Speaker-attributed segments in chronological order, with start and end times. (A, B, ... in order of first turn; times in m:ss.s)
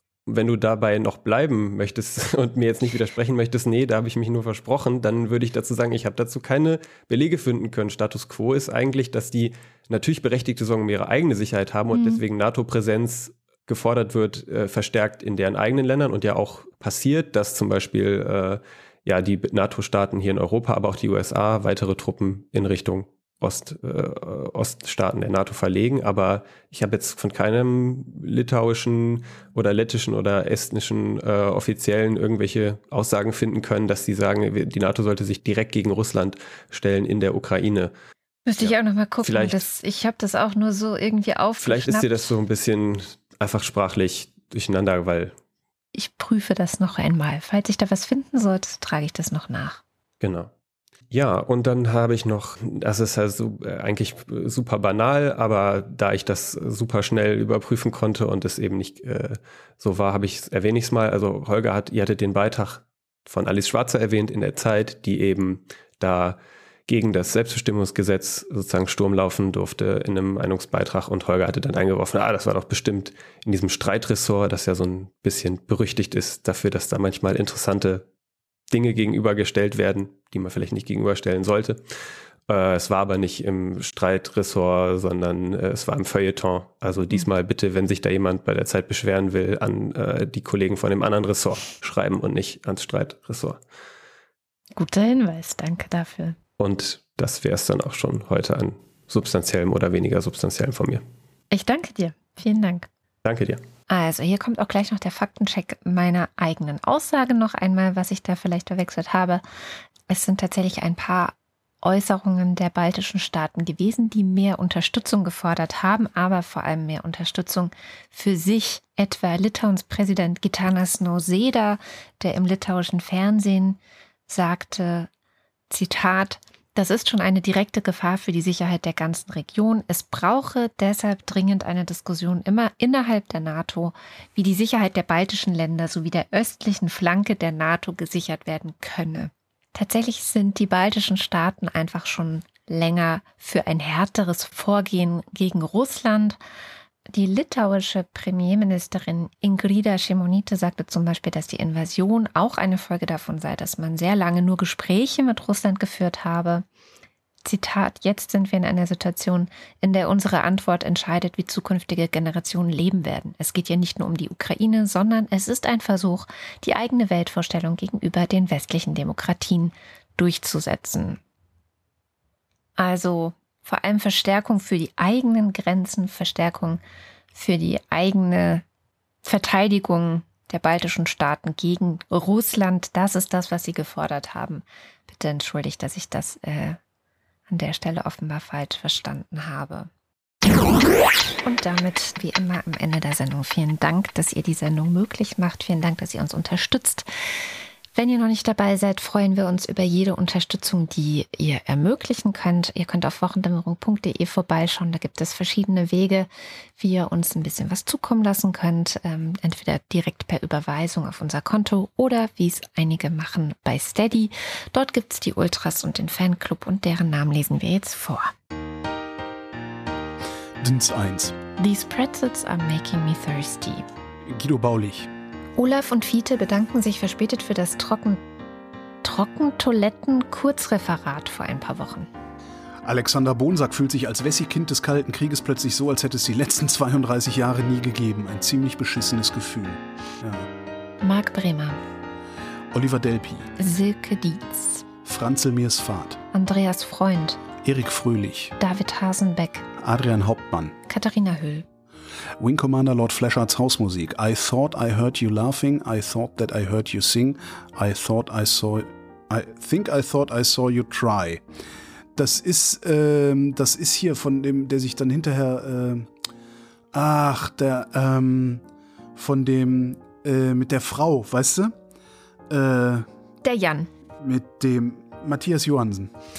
0:00.3-0:37.9 A
0:11.9-0:12.2 B
0:38.5-0:42.3 B
0:38.6-0:39.6 A
0:41.6-0:45.3 A
0:45.9-0:49.8 B
0:50.2-0:50.5 A
0:51.1-1:18.0 A
1:18.7-1:21.8 A
1:22.5-1:33.6 A
1:34.8-1:36.4 B
1:36.6-1:41.0 A
1:41.5-1:42.9 B
1:43.2-1:43.6 A
1:43.9-1:49.4 B
1:50.1-2:05.1 B
2:05.7-2:26.4 B
2:27.1-2:36.6 B
2:37.4-2:51.2 B
2:52.8-2:56.8 B
2:57.3-2:58.6 B
2:59.2-3:06.8 B
3:07.5-3:09.9 B
3:11.4-3:38.3 B
3:40.6-3:41.4 C
3:41.6-3:43.8 B
3:44.2-3:45.1 C
3:45.6-3:48.2 B
3:49.0-3:52.1 B
3:52.8-4:00.5 C
4:01.0-4:01.8 B
4:02.7-4:03.5 C
4:03.6-4:04.8 B
4:05.0-4:06.2 C
4:06.3-4:07.4 B
4:07.6-4:08.6 C
4:08.6-4:09.6 B
4:09.8-4:10.8 C
4:10.9-4:11.6 B
4:12.4-4:21.4 C
4:22.2-4:26.1 C
4:26.9-4:28.6 C
4:29.2-4:31.7 C
4:32.5-4:33.0 C
4:33.4-4:33.9 B
4:34.2-4:36.1 C